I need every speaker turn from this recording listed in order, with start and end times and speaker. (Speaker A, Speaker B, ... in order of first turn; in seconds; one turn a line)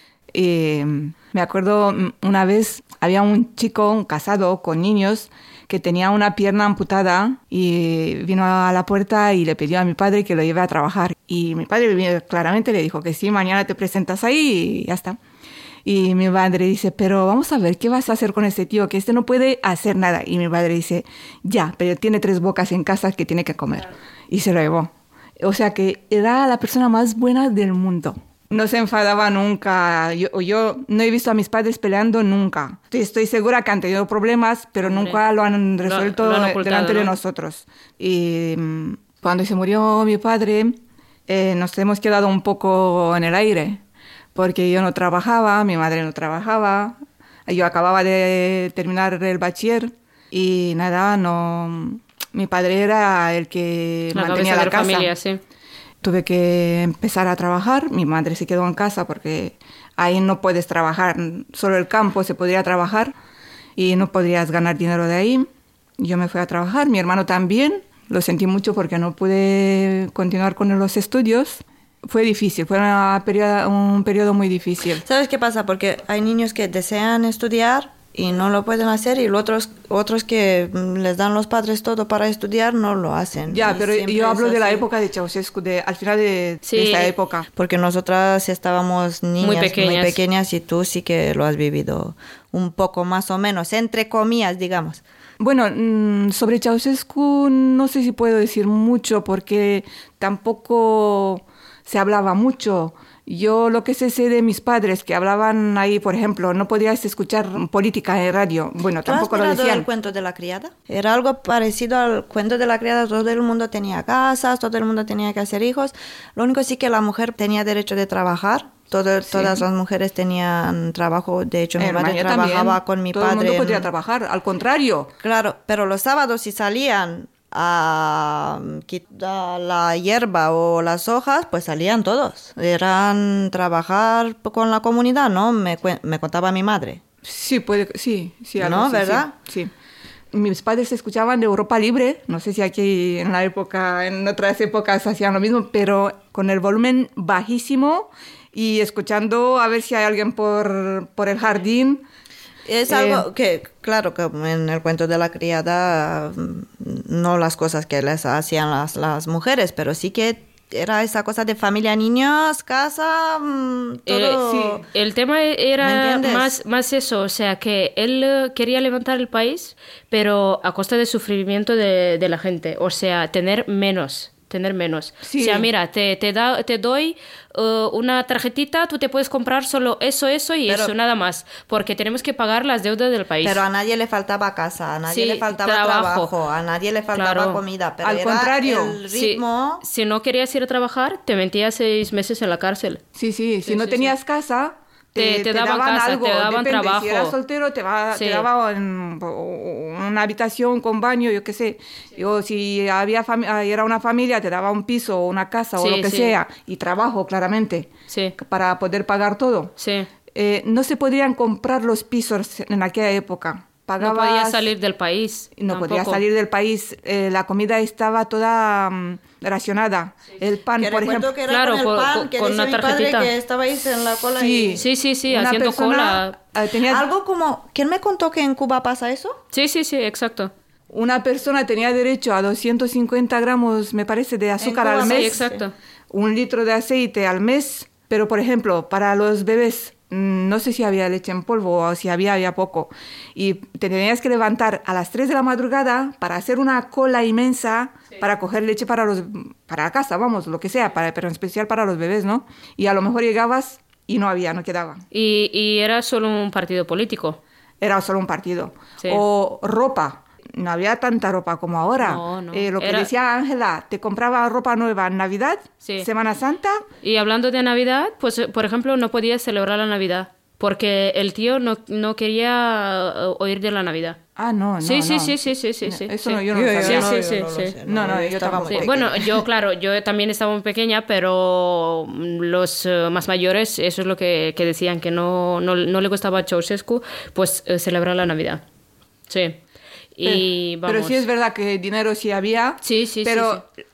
Speaker A: 0.3-15.2
Speaker A: 15.8-43.8
Speaker B: 34.8-35.2
Speaker B: 35.9-37.1
Speaker A: 44.3-55.1
Speaker B: 54.1-55.4
Speaker A: 56.0-63.1
Speaker A: 63.8-65.5
Speaker A: 66.0-75.0
Speaker C: 75.0-84.8
Speaker A: 83.5-87.5
Speaker B: 86.6-87.1
Speaker C: 87.5-95.0
Speaker B: 89.4-90.2
Speaker A: 95.4-109.8
Speaker C: 109.0-123.9
Speaker A: 119.2-119.6
Speaker A: 121.8-125.1
Speaker C: 125.2-137.0
Speaker A: 137.2-139.7
Speaker C: 138.6-139.3
Speaker A: 140.3-152.1
Speaker C: 152.7-164.8
Speaker A: 152.9-153.2
Speaker B: 164.1-183.6
Speaker A: 164.4-164.8
Speaker C: 165.8-166.5
Speaker A: 175.2-175.7
Speaker C: 180.7-180.9
Speaker C: 183.4-189.8
Speaker B: 185.1-186.3
Speaker B: 187.1-187.6
Speaker A: 188.0-189.0
Speaker B: 189.1-193.0
Speaker A: 193.1-209.7
Speaker B: 193.6-194.1
Speaker B: 195.2-197.3
Speaker B: 198.1-198.4
Speaker B: 205.8-206.3
Speaker B: 208.1-208.3
Speaker B: 209.8-210.1
Speaker A: 210.3-214.7
Speaker B: 214.0-216.2
Speaker A: 215.6-221.3
Speaker C: 220.8-224.8
Speaker B: 221.5-223.3
Speaker A: 224.3-227.0
Speaker B: 224.8-226.3
Speaker C: 226.9-229.4
Speaker B: 229.5-230.5
Speaker A: 230.9-235.4
Speaker C: 234.6-235.6
Speaker B: 235.0-235.7
Speaker A: 236.1-255.0
Speaker B: 255.1-257.4
Speaker A: 257.8-266.8
Speaker B: 262.0-263.1
Speaker B: 265.8-266.1
Speaker B: 267.0-274.2
Speaker A: 274.4-277.2
Speaker B: 274.8-277.7
Speaker C: 276.5-279.3
Speaker A: 277.8-279.0
Speaker B: 278.6-288.6
Speaker B: 289.3-289.6
Speaker B: 290.1-291.2
Speaker A: 290.2-293.7
Speaker B: 292.8-293.6